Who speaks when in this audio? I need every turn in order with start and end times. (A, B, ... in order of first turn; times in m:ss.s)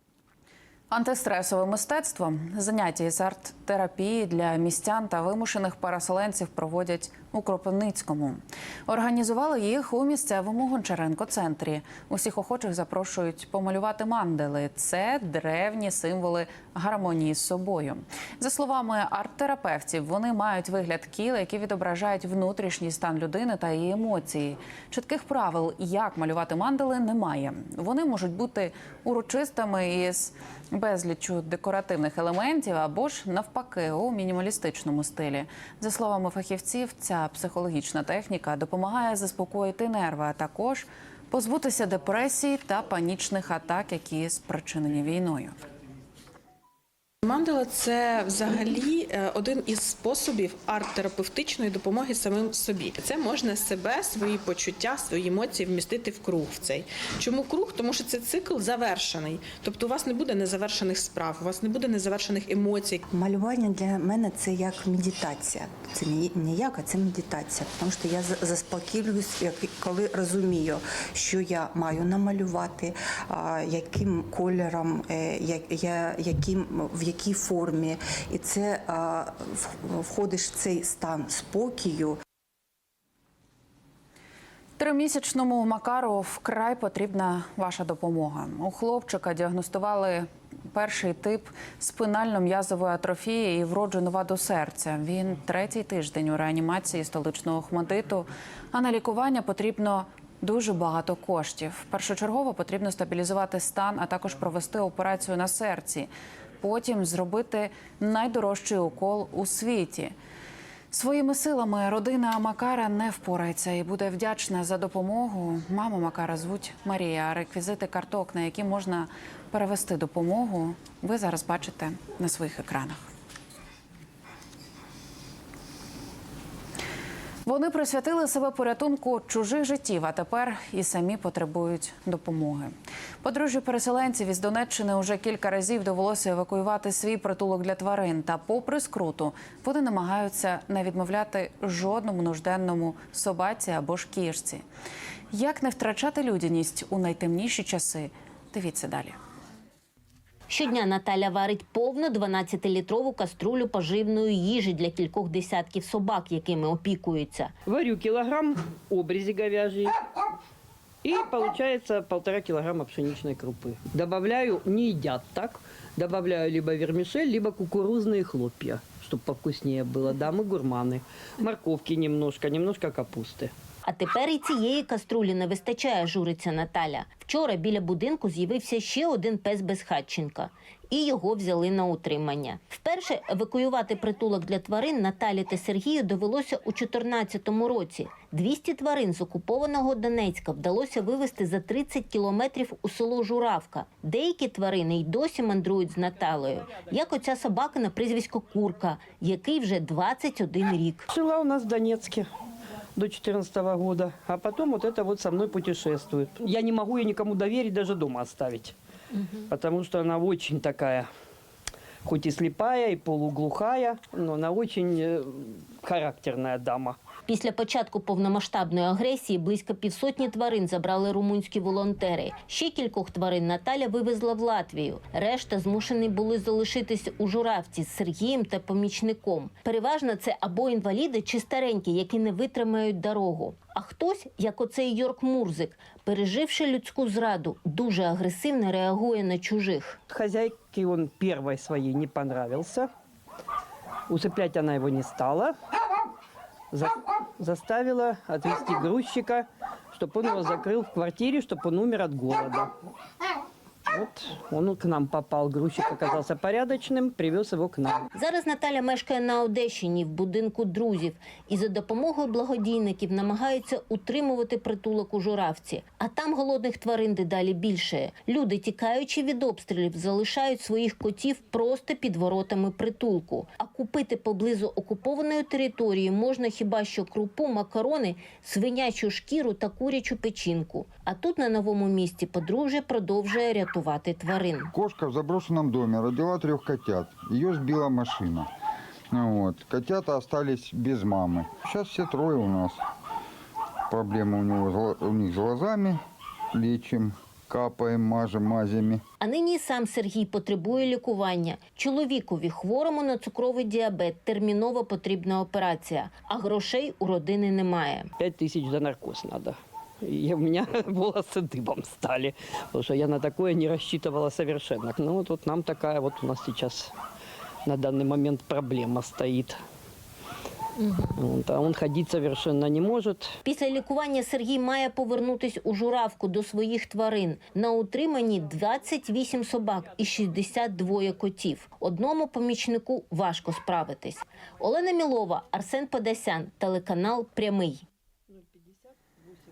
0:00.9-0:45.6 A
0:47.2-1:03.0 B
1:03.1-1:22.2 C
1:24.8-1:50.1 A
1:50.9-2:03.0 A
2:07.4-2:24.6 A
2:25.3-2:29.2 A
2:30.5-2:37.5 D
2:37.7-2:39.9 E
2:41.0-2:53.5 E
2:53.9-3:21.1 D
3:21.1-3:22.3 E
3:23.0-3:28.7 E
3:29.5-3:31.1 E
3:32.0-3:37.0 E
3:37.3-4:00.0 D
4:00.1-4:02.9 E
4:04.1-4:05.5 E
4:06.7-4:12.7 E
4:13.9-4:18.1 E
4:18.2-4:44.7 D
4:44.7-4:48.5 F
4:49.1-4:52.8 F
4:53.9-4:56.0 F
4:56.5-4:59.0 F
4:59.2-5:08.1 D
5:08.2-5:16.9 E
5:17.6-5:19.6 E
5:20.8-5:21.1 D
5:21.1-5:23.3 E
5:23.5-5:37.8 D
5:38.3-5:38.9 E